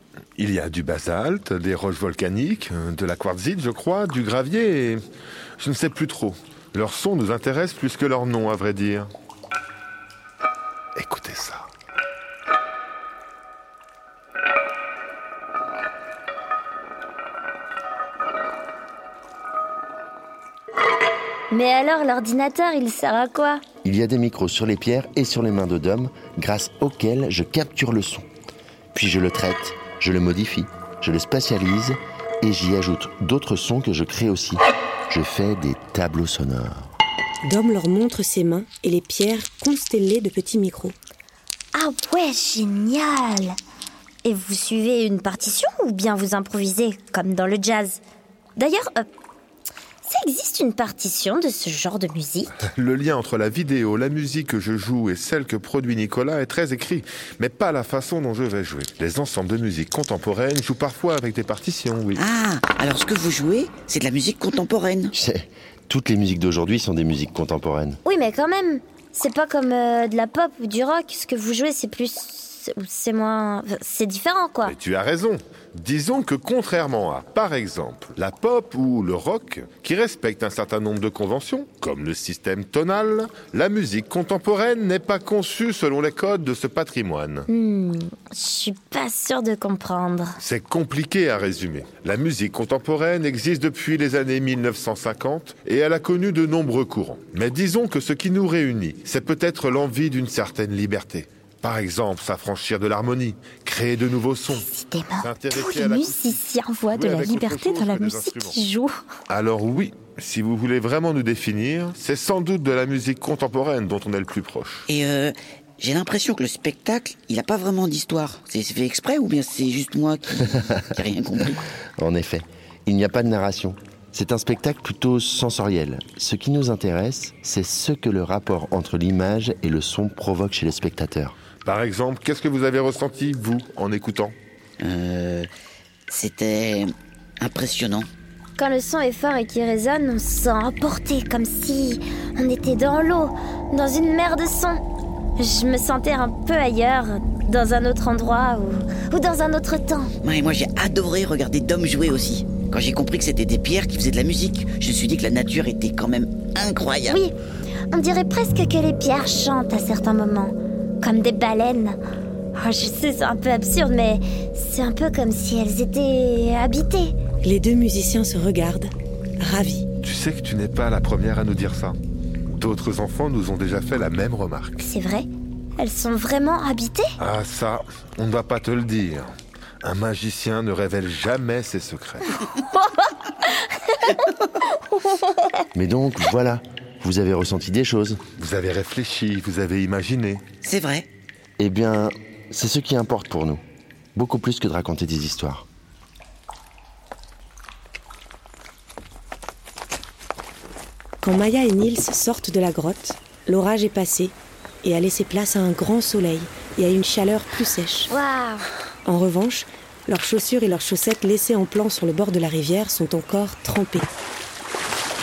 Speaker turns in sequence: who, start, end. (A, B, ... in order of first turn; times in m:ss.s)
0:00.4-0:05.0 A
0:05.6-0:09.1 A
0:11.0-0:11.7 A
0:21.5-0:23.6 B
0:23.8-0:28.3 C
0:28.9-0:36.9 C
0:37.4-0:41.0 D
0:41.7-0:43.6 B
0:44.2-0:48.0 B
0:48.6-0:49.1 B
0:50.0-0:52.6 B
0:52.6-1:02.2 A
1:02.2-1:05.1 E
1:05.1-1:08.0 C
1:08.0-1:14.8 B
1:14.6-1:27.5 A
1:27.5-1:30.4 B
1:30.4-1:44.7 A
1:44.5-1:49.0 B
1:45.2-1:46.4 A
1:46.9-1:48.6 A
1:49.3-1:54.8 A
1:54.9-2:01.6 E
2:02.0-2:11.4 C
2:11.6-2:14.4 A
2:14.8-2:15.5 E
2:16.1-2:18.1 E
2:18.6-2:24.8 B
2:25.4-2:30.1 B
2:30.2-2:37.2 E
2:37.0-2:37.3 B
2:37.9-2:42.0 B
2:42.5-2:47.1 B
2:47.4-2:49.9 D
2:50.0-2:52.0 A
2:52.5-2:54.8 A
2:54.8-2:57.1 B
2:57.2-3:02.2 A
3:02.6-3:05.6 B
3:05.7-3:08.2 C
3:08.4-3:10.4 A
3:10.6-3:11.1 E
3:11.6-3:13.6 C
3:14.1-3:15.6 C
3:21.2-3:28.1 D
3:28.1-3:28.7 B
3:29.0-3:34.1 D